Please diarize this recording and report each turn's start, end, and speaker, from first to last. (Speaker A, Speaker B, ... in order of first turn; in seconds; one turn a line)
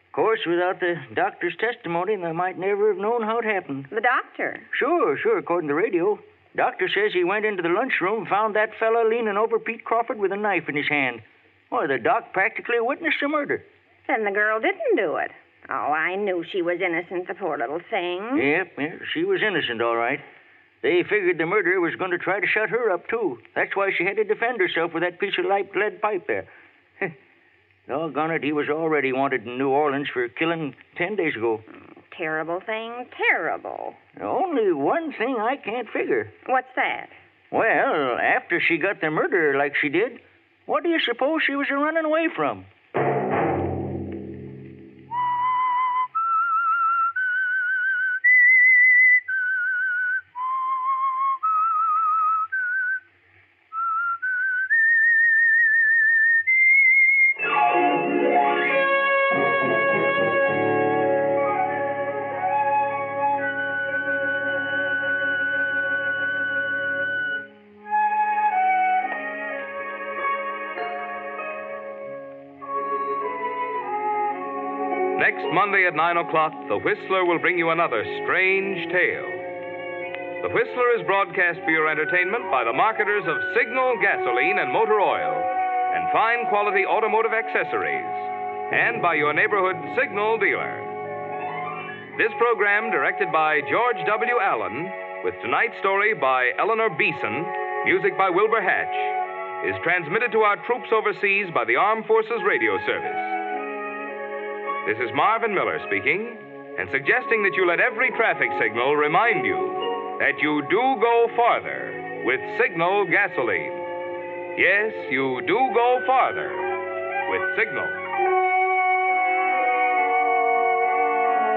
Speaker A: 0.1-3.9
Speaker B: 3.9-4.7
Speaker A: 4.7-13.7
Speaker B: 14.1-18.5
Speaker A: 18.3-20.2
Speaker A: 20.8-26.5
Speaker A: 27.9-31.6
Speaker B: 31.7-34.0
Speaker A: 34.2-36.3
Speaker B: 36.4-37.1
Speaker A: 37.5-42.7
Speaker C: 75.2-79.4
Speaker C: 80.4-90.9
Speaker C: 92.2-103.4
Speaker C: 104.8-113.8
Speaker C: 114.5-116.7
Speaker C: 117.2-118.0